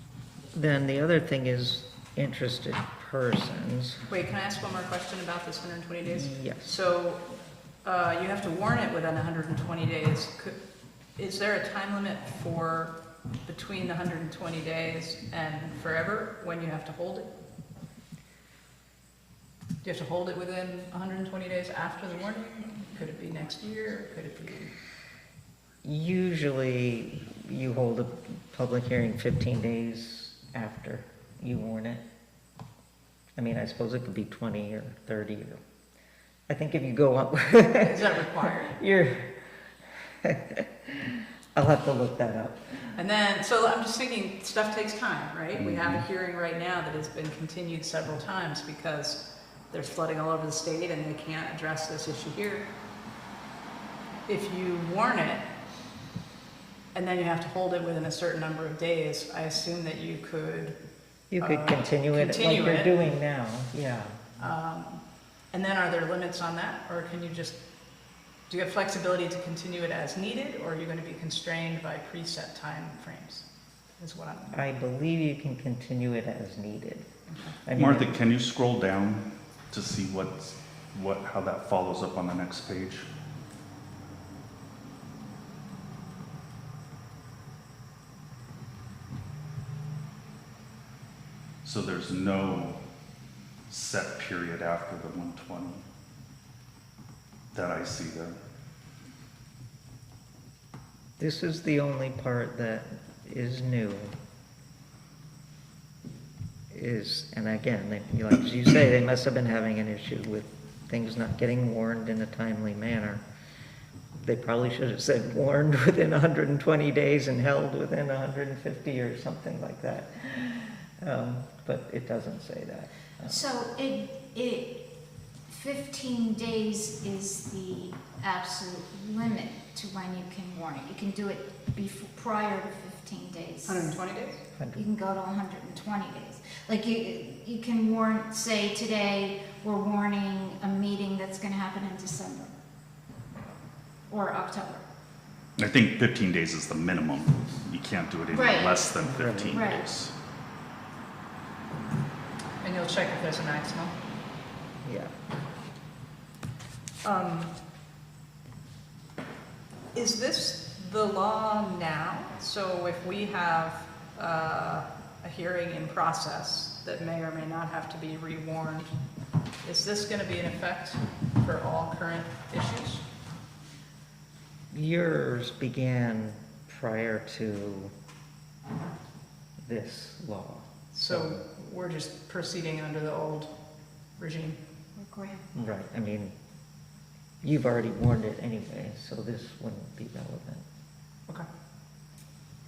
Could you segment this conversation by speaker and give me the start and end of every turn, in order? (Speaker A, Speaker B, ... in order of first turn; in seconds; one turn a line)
Speaker A: 0.5-4.0
Speaker B: 4.1-7.2
Speaker A: 6.0-6.8
Speaker B: 7.8-10.6
Speaker B: 11.2-12.9
Speaker B: 13.5-17.3
Speaker B: 19.8-24.7
Speaker A: 25.8-32.0
Speaker A: 33.4-35.6
Speaker A: 36.5-38.0
Speaker B: 37.8-38.8
Speaker A: 38.6-39.3
Speaker A: 40.2-42.7
Speaker B: 43.0-49.2
Speaker B: 49.7-52.7
Speaker B: 54.3-55.5
Speaker B: 56.9-60.8
Speaker A: 61.3-64.2
Speaker B: 61.4-63.0
Speaker B: 64.4-65.0
Speaker B: 65.5-67.6
Speaker B: 68.5-73.5
Speaker B: 74.0-74.6
Speaker A: 74.5-77.1
Speaker B: 77.3-77.6
Speaker A: 77.7-78.2
Speaker C: 77.8-83.1
Speaker C: 91.6-92.8
Speaker C: 93.7-95.8
Speaker C: 97.5-98.4
Speaker A: 101.2-104.2
Speaker A: 106.7-113.2
Speaker A: 114.2-123.4
Speaker D: 123.2-124.9
Speaker D: 125.5-134.0
Speaker B: 133.6-134.4
Speaker A: 134.6-134.8
Speaker D: 134.7-142.5
Speaker D: 144.1-144.8
Speaker C: 145.6-150.1
Speaker D: 148.3-148.8
Speaker A: 149.0-149.6
Speaker D: 149.5-149.8
Speaker B: 152.6-153.9
Speaker A: 154.8-155.1
Speaker B: 157.0-157.5
Speaker B: 159.9-168.9
Speaker B: 169.6-173.0
Speaker A: 174.7-177.9
Speaker A: 179.6-181.4
Speaker B: 180.9-183.5
Speaker B: 184.2-184.6
Speaker D: 184.9-185.5
Speaker A: 185.5-186.3
Speaker A: 187.4-190.7